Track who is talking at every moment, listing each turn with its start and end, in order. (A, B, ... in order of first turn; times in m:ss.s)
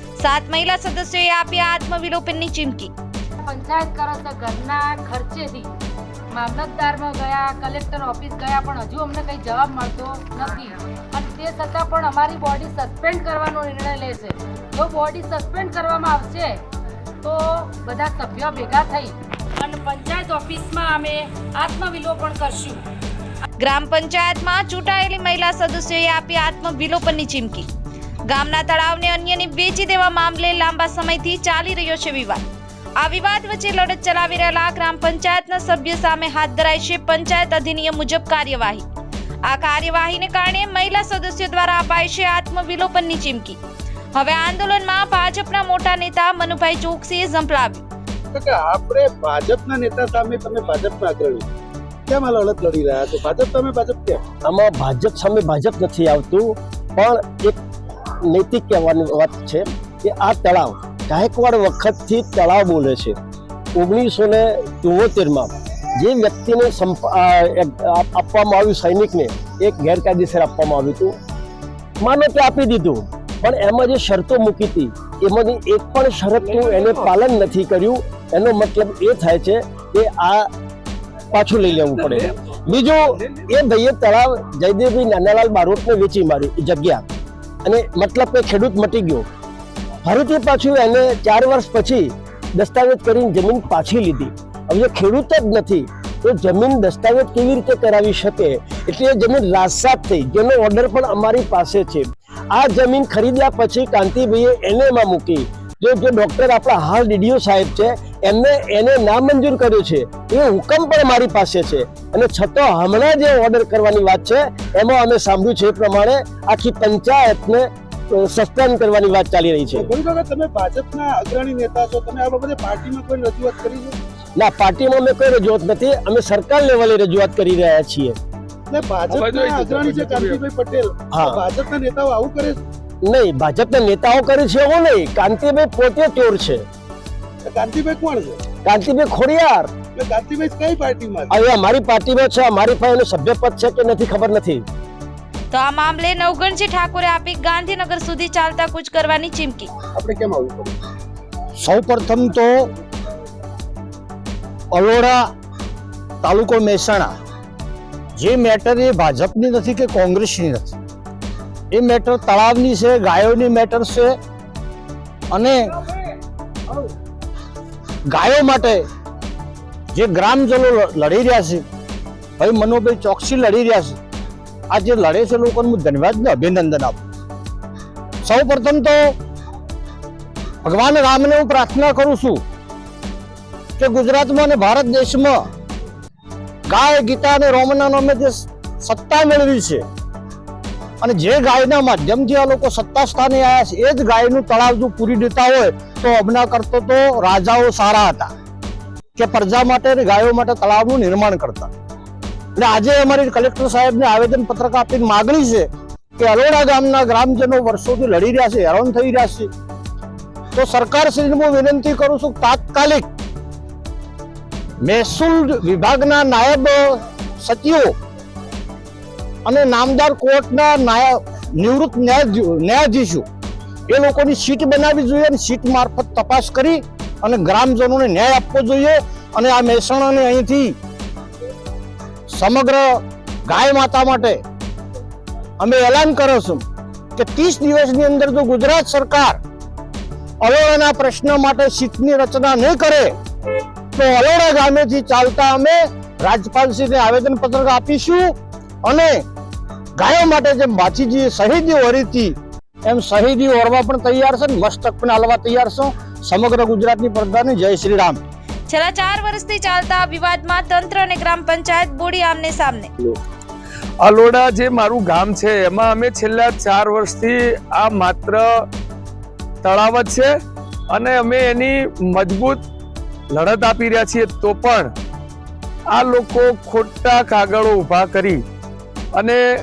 0:00.2-0:02.9 A
0:03.4-0:05.7 B
0:06.3-0:16.6 B
0:17.2-0:22.8 B
0:23.6-0:27.7 A
0:28.3-0:32.4 A
0:33.0-0:38.9 A
0:39.5-0:43.6 A
0:44.1-0:47.8 A
0:48.3-0:51.5 C
0:52.1-0:54.2 C
0:54.5-0:57.6 D
0:58.3-1:03.2 D
1:03.8-1:05.5 D
1:06.0-1:11.1 D
1:12.0-1:20.5 D
1:21.3-1:27.0 D
1:27.6-1:29.2 D
1:30.0-1:32.0 D
1:32.6-1:59.9 D
1:59.8-2:04.0 C
2:04.4-2:08.2 D
2:08.7-2:12.6 C
2:09.1-2:10.4 E
2:11.1-2:11.4 D
2:13.1-2:16.6 D
2:17.5-2:18.4 C
2:18.6-2:19.7 D
2:20.0-2:21.3 C
2:21.3-2:24.6 D
2:25.5-2:29.7 A
2:30.0-2:30.7 C
2:31.6-2:32.5 F
2:34.7-2:35.2 F
2:36.2-2:37.1 F
2:38.2-2:40.8 F
2:41.7-2:44.1 F
2:45.3-2:45.6 F
2:48.1-2:48.8 F
2:49.9-2:51.6 F
2:52.4-2:54.0 F
2:54.7-2:57.0 F
2:58.2-2:59.0 F
3:00.6-3:02.4 F
3:03.8-3:05.4 F
3:06.7-3:09.8 F
3:11.0-3:18.3 F
3:19.2-3:21.7 F
3:22.6-3:29.5 F
3:30.5-3:33.1 F
3:34.8-3:37.9 F
3:39.4-3:43.2 F
3:43.9-3:50.8 F
3:52.3-3:54.4 F
3:55.6-3:56.6 F
3:57.2-3:59.4 F
4:00.4-4:03.1 F
4:04.0-4:09.2 F
4:10.0-4:18.2 F
4:18.7-4:22.9 A
4:24.0-4:28.6 E
4:29.6-4:30.3 E
4:30.9-4:32.6 E
4:33.3-4:34.9 E
4:35.9-4:38.4 E
4:39.1-4:39.4 E